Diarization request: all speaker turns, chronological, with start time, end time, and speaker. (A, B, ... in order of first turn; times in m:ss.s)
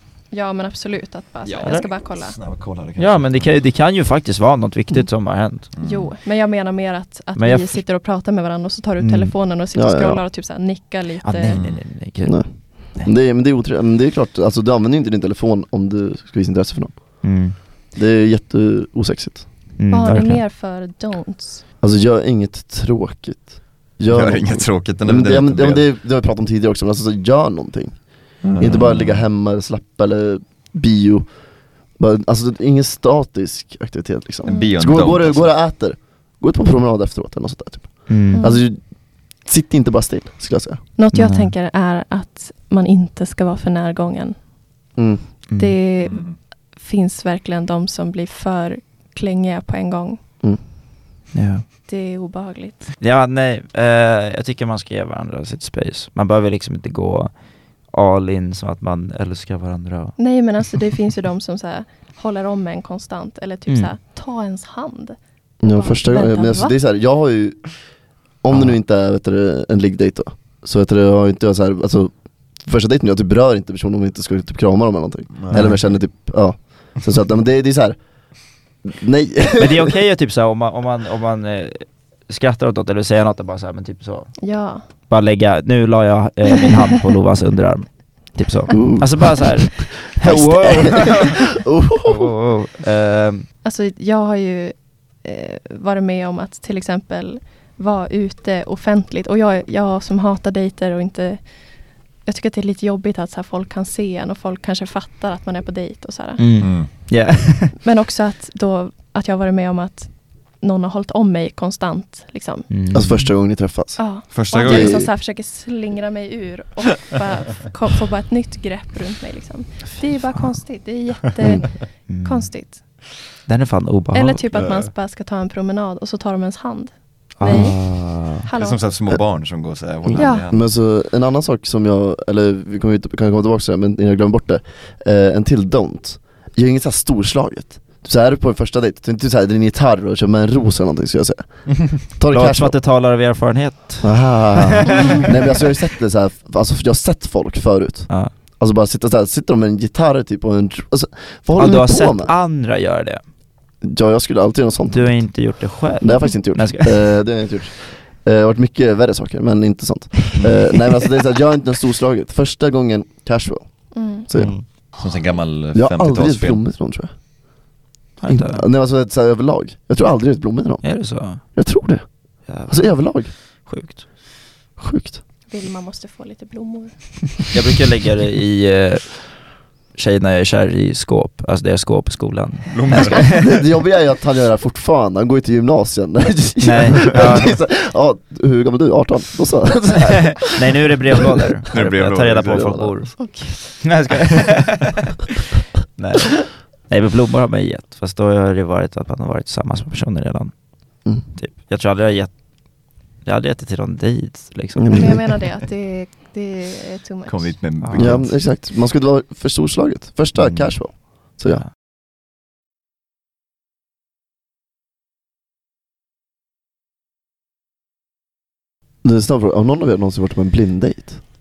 0:00.3-0:02.4 A
0:01.4-0:03.6 B
0:01.6-0:01.9 C
0:03.0-0:05.7 C
0:05.8-0:06.1 B
0:05.8-0:11.6 A
0:07.4-0:07.8 C
0:09.0-0:09.3 C
0:09.8-0:10.2 D
0:11.2-0:13.1 C
0:11.5-0:11.8 B
0:12.2-0:17.2 D
0:17.2-0:17.6 C
0:18.0-0:19.4 D
0:19.8-0:20.4 C
0:19.9-0:21.6 A
0:21.8-0:28.0 D
0:24.1-0:25.8 B
0:28.4-0:29.2 B
0:28.6-0:31.3 D
0:32.0-0:38.8 D
0:34.4-0:35.6 B
0:34.5-0:34.7 A
0:38.1-0:38.5 C
0:38.3-0:38.6 A
0:39.4-0:40.8 D
0:41.0-0:44.4 A
0:41.1-0:41.5 C
0:45.0-0:45.2 D
0:45.5-0:45.8 C
0:45.6-0:50.2 A
0:46.0-0:46.4 B
0:51.3-0:51.6 C
0:51.9-0:52.9 A
0:53.0-0:57.4 C
0:57.9-1:00.2 C
1:00.2-1:06.7 A
1:05.6-1:07.8 D
1:08.4-1:18.0 D
1:15.4-1:15.8 B
1:15.5-1:15.8 C
1:18.8-1:19.9 D
1:19.6-1:24.4 C
1:24.4-1:24.8 A
1:25.1-1:31.5 C
1:28.7-1:32.3 D
1:32.0-1:33.5 C
1:33.6-1:41.5 A
1:42.2-1:46.4 A
1:46.4-1:47.8 C
1:46.6-1:46.9 B
1:47.8-1:52.7 A
1:52.7-1:53.3 C
1:52.9-1:55.1 D
1:54.0-2:02.8 A
1:54.3-1:55.1 B
2:02.1-2:02.5 C
2:03.5-2:04.5 C
2:04.1-2:07.8 A
2:04.5-2:04.9 B
2:07.4-2:08.0 C
2:07.4-2:08.4 D
2:08.4-2:08.8 A
2:08.5-2:10.7 B
2:10.1-2:22.8 D
2:10.2-2:10.5 A
2:22.3-2:25.2 C
2:24.0-2:32.3 D
2:31.6-2:33.2 C
2:33.8-2:35.4 D
2:34.9-2:37.0 C
2:36.0-2:44.6 D
2:43.9-2:44.3 A
2:44.4-2:44.6 C
2:45.0-2:46.6 B
2:45.7-2:47.1 D
2:48.2-2:48.6 C
2:48.3-2:53.3 D
2:50.8-2:51.4 C
2:52.5-2:54.0 C
2:54.8-2:55.2 D
2:55.5-2:56.9 A
2:57.5-2:59.3 C
2:59.9-3:03.5 C
3:02.7-3:03.5 B
3:03.3-3:11.0 D
3:06.6-3:07.6 C
3:10.4-3:15.1 C
3:11.7-3:12.9 B
3:12.5-3:12.9 D
3:16.0-3:20.5 C
3:21.3-3:22.3 C
3:23.2-3:25.3 C
3:24.8-3:25.2 D
3:24.9-3:27.6 A
3:27.3-3:28.3 B
3:27.8-3:28.2 C
3:28.0-3:31.6 D
3:30.4-3:30.7 C
3:39.0-3:41.2 D